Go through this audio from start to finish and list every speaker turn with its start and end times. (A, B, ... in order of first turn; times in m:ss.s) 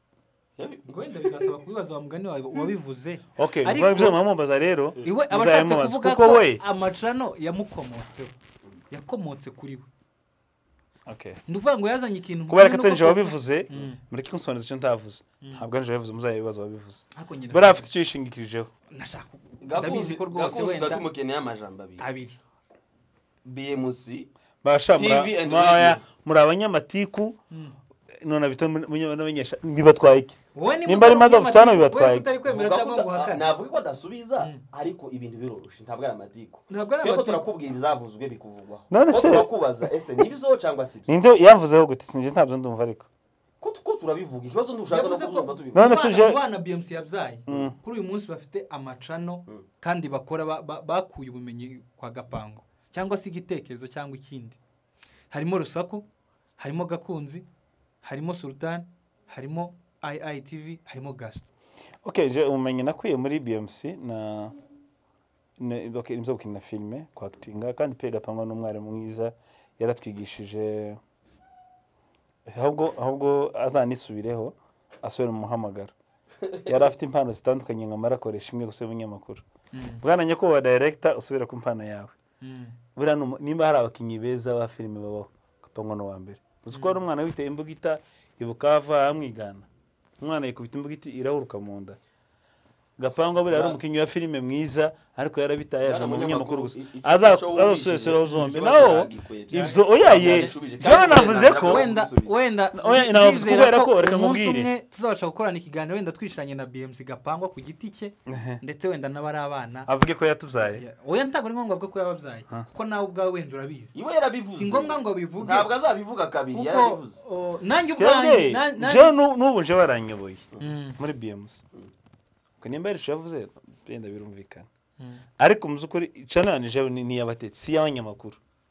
0:00.6-0:01.3 A
0:00.9-0:04.2 B
0:03.4-0:06.6 C
0:05.0-0:08.3 B
0:08.9-0:09.9 B
0:11.1-0:11.4 C
0:11.5-0:14.0 B
0:12.5-0:18.7 C
0:17.1-0:17.9 B
0:18.9-0:21.0 B
0:19.6-0:22.0 A
0:22.0-0:22.4 B
0:23.4-0:24.3 A
0:24.6-0:27.4 C
0:24.9-0:26.0 A
0:27.5-0:27.8 B
0:28.2-0:32.3 C
0:30.5-0:33.5 B
0:32.4-0:41.1 A
0:36.7-0:37.5 B
0:38.9-0:39.9 C
0:41.1-0:43.1 C
0:43.6-0:46.0 A
0:44.9-0:54.6 B
0:45.7-0:46.4 C
0:47.5-0:47.7 C
0:55.3-0:56.0 B
0:56.6-0:57.4 B
0:58.0-1:01.5 B
1:02.0-1:04.5 C
1:05.6-1:11.0 C
1:12.4-1:15.9 C
1:16.4-1:16.8 A
1:16.6-1:19.4 C
1:19.7-1:20.0 B
1:20.0-1:22.1 C
1:22.4-1:22.8 B
1:23.0-1:29.6 C
1:26.7-1:27.0 B
1:30.2-1:32.0 C
1:33.0-1:41.8 C
1:33.4-1:33.8 A
1:35.8-1:42.3 A
1:38.3-1:38.5 B
1:39.5-1:40.5 B
1:41.6-1:49.9 B
1:42.7-1:44.7 C
1:48.3-1:48.6 C
1:49.9-1:50.8 C
1:50.6-1:54.0 B
1:53.9-1:57.2 A
1:54.5-1:55.7 B
1:56.5-1:59.1 B
1:58.0-2:01.6 C
2:00.6-2:01.0 B
2:02.6-2:04.7 C
2:05.4-2:08.4 C